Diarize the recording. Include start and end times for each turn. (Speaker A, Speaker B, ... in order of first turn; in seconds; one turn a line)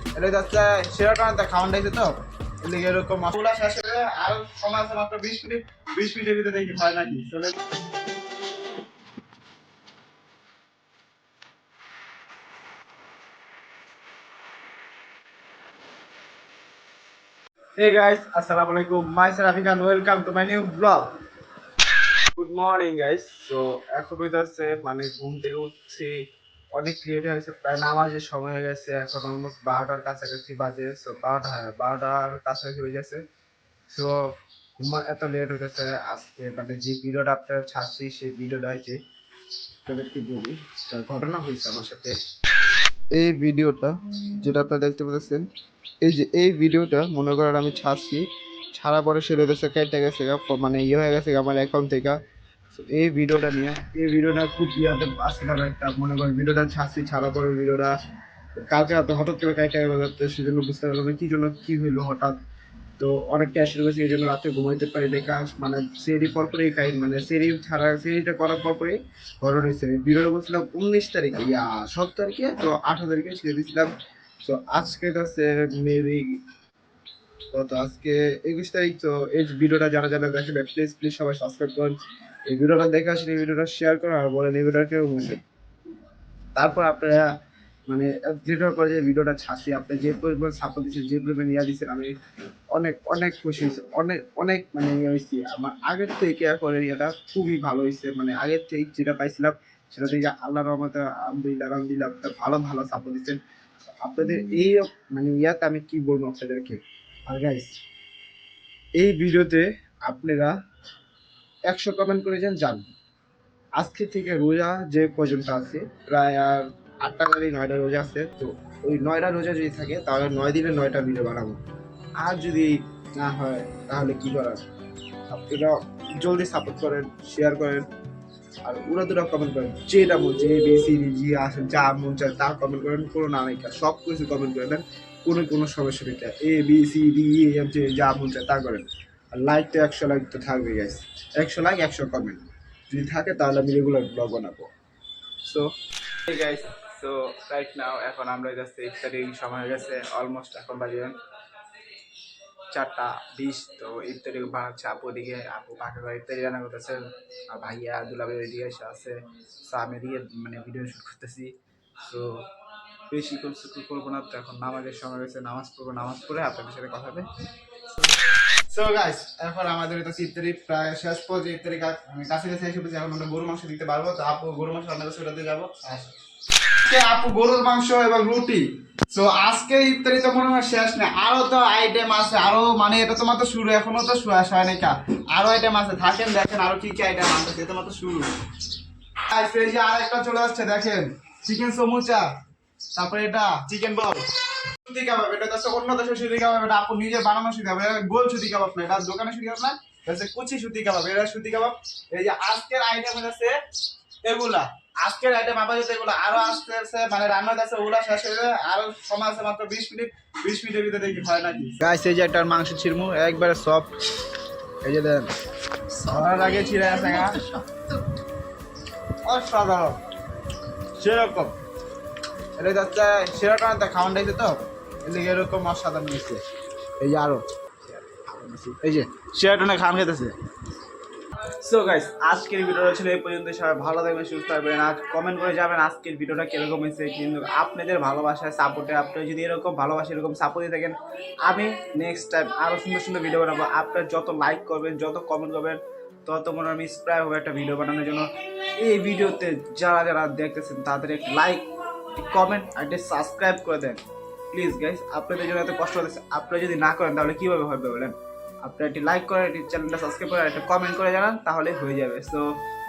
Speaker A: 0.2-7.6
Speaker A: 17.8-21.1
Speaker A: 22.4-26.2
Speaker A: 26.7-33.2
Speaker A: 33.9-34.2
Speaker A: 34.8-39.0
Speaker A: 39.9-42.2
Speaker A: 43.1-45.5
Speaker A: 46.0-52.2
Speaker A: 52.7-57.9
Speaker A: 58.6-62.4
Speaker A: 63.0-73.9
Speaker A: 74.4-76.4
Speaker A: 77.5-82.0
Speaker A: 82.5-85.4
Speaker A: 86.6-87.3
Speaker A: 87.9-92.1
Speaker A: 92.7-103.4
Speaker A: 104.0-107.8
Speaker A: 109.0-110.5
Speaker A: 111.7-112.9
Speaker A: 113.8-121.6
Speaker A: 122.2-124.6
Speaker A: 125.3-127.9
Speaker A: 128.6-144.7
Speaker A: 145.4-145.7
Speaker A: 146.3-151.2
Speaker A: 152.7-162.3
Speaker A: 163.1-168.2
Speaker A: 168.7-176.2
Speaker A: 176.8-188.3
Speaker A: 189.3-192.3
Speaker A: 192.9-194.3
Speaker A: 194.8-203.6
Speaker A: 204.2-213.9
Speaker A: 214.8-215.3
Speaker A: 215.9-217.9
Speaker A: 219.3-220.0
Speaker A: 221.0-221.5
Speaker A: 222.6-226.4
Speaker A: 227.0-230.4
Speaker A: 231.5-262.6